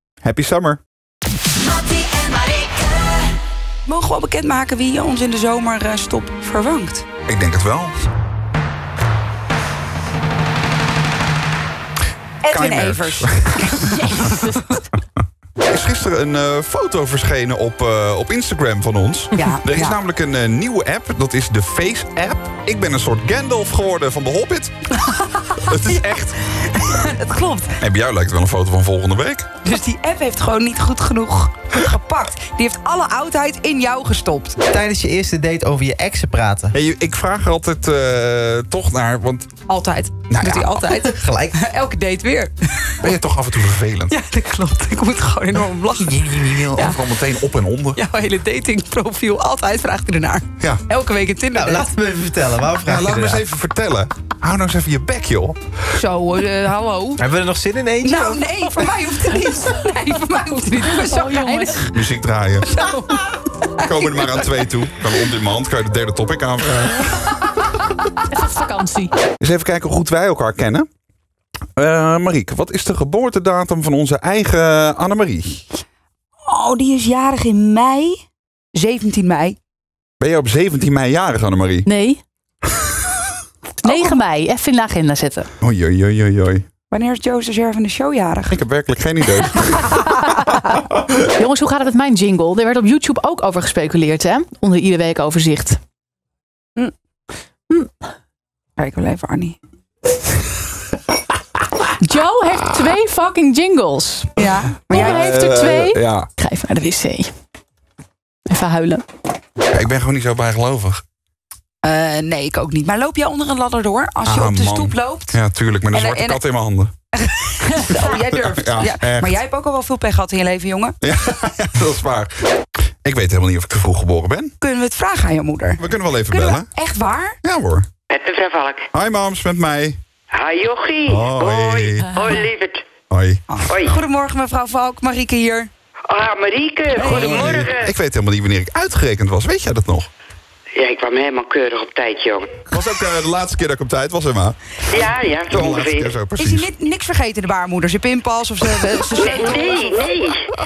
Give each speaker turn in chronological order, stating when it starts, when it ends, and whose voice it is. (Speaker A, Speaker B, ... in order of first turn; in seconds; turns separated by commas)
Speaker A: 0.2-0.8, Speaker B: 3.9-7.1, Speaker A: 7.3-7.9, Speaker B: 12.4-14.7, Speaker A: 12.5-14.1, Speaker C: 13.9-14.8, Speaker A: 15.7-24.7, Speaker B: 19.4-20.0, Speaker B: 25.0-27.8, Speaker A: 25.6-26.4, Speaker A: 27.8-29.5, Speaker B: 29.6-34.6, Speaker D: 34.7-36.8, Speaker A: 36.7-39.5, Speaker B: 39.7-43.0, Speaker A: 40.3-40.8, Speaker D: 40.9-41.6, Speaker A: 43.0-44.1, Speaker B: 44.1-47.2, Speaker A: 46.0-48.0, Speaker B: 48.0-51.9, Speaker D: 51.5-53.4, Speaker A: 52.8-55.6, Speaker B: 56.0-57.2, Speaker D: 57.2-58.9, Speaker B: 58.0-61.9, Speaker C: 61.0-61.9, Speaker A: 61.9-62.7, Speaker B: 62.6-64.6, Speaker A: 63.8-67.3, Speaker C: 68.3-69.1, Speaker A: 69.4-70.9, Speaker A: 71.8-75.7, Speaker B: 76.5-78.2, Speaker B: 78.7-79.6, Speaker A: 80.2-81.9, Speaker C: 81.9-82.2, Speaker C: 83.8-85.5, Speaker B: 83.8-84.2, Speaker A: 85.6-86.7, Speaker B: 86.9-88.6, Speaker A: 88.5-90.0, Speaker C: 91.2-95.8, Speaker C: 97.7-98.0, Speaker B: 98.8-99.6, Speaker C: 102.0-104.4, Speaker B: 104.4-105.3, Speaker C: 104.9-107.3, Speaker A: 104.9-106.3, Speaker C: 108.5-109.0, Speaker A: 109.7-111.0, Speaker B: 111.8-115.4, Speaker A: 114.2-116.9, Speaker B: 115.9-116.4, Speaker B: 117.1-121.0, Speaker A: 118.0-119.4, Speaker A: 121.0-122.3, Speaker A: 123.0-124.5, Speaker B: 124.6-127.4, Speaker A: 125.8-126.7, Speaker A: 127.4-127.9, Speaker E: 128.1-128.9, Speaker A: 128.9-130.0, Speaker E: 130.3-132.8, Speaker A: 131.1-132.3, Speaker A: 133.1-133.9, Speaker B: 133.5-135.7, Speaker E: 136.1-137.9, Speaker A: 136.9-140.1, Speaker B: 137.1-137.7, Speaker E: 140.8-142.6, Speaker A: 142.7-146.7, Speaker E: 144.9-146.1, Speaker B: 146.4-150.0, Speaker E: 149.2-150.4